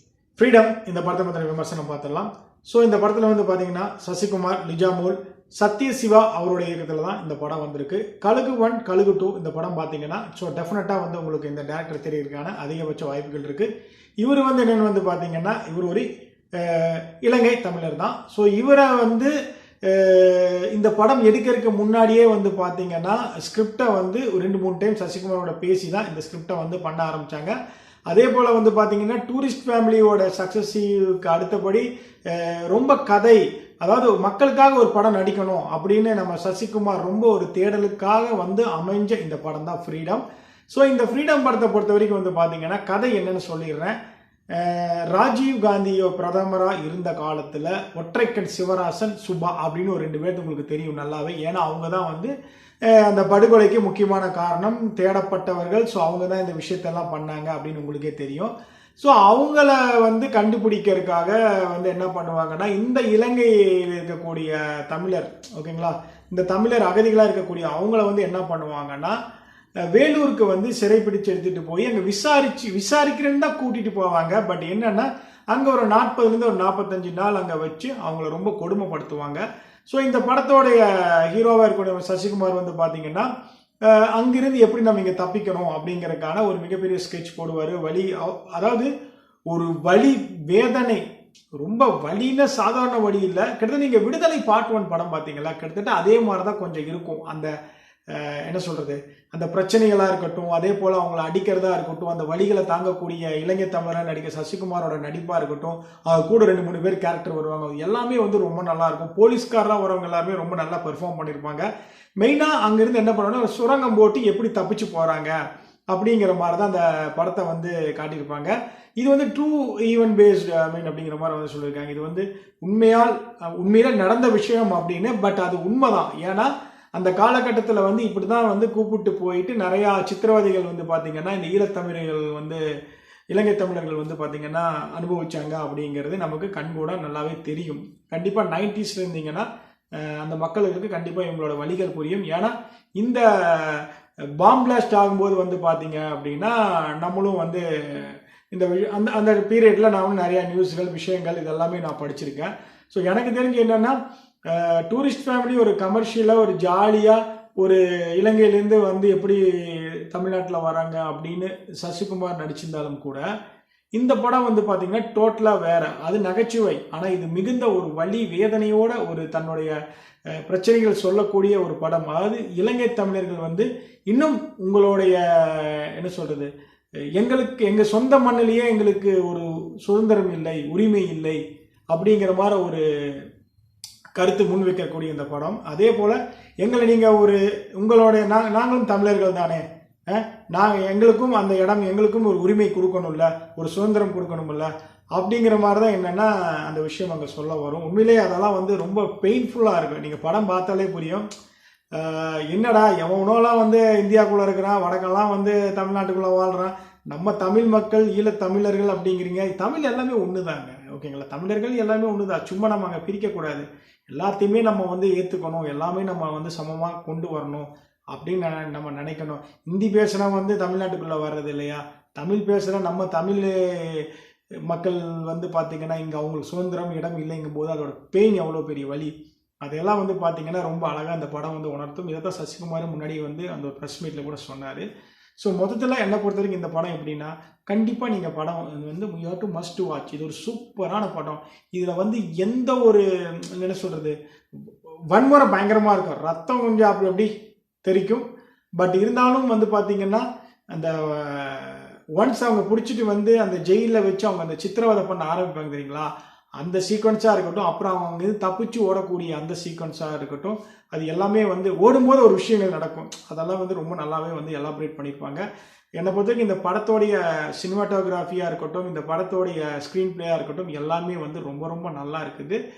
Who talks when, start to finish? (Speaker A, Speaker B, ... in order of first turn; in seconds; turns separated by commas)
Speaker A: 0.4-13.7, Speaker A: 14.2-19.3, Speaker A: 19.9-27.6, Speaker A: 28.1-44.0, Speaker A: 44.5-52.3, Speaker A: 52.9-69.2, Speaker A: 69.9-83.3, Speaker A: 83.8-88.9, Speaker A: 89.5-91.0, Speaker A: 91.6-97.5, Speaker A: 98.1-111.7, Speaker A: 112.2-115.4, Speaker A: 115.9-132.6, Speaker A: 133.3-143.9, Speaker A: 144.4-163.2, Speaker A: 163.9-169.8, Speaker A: 170.4-176.5, Speaker A: 177.2-183.2, Speaker A: 184.2-201.2, Speaker A: 201.9-224.1, Speaker A: 224.7-234.8, Speaker A: 235.4-244.2, Speaker A: 244.7-247.3, Speaker A: 247.8-248.2, Speaker A: 248.8-265.4, Speaker A: 266.0-272.6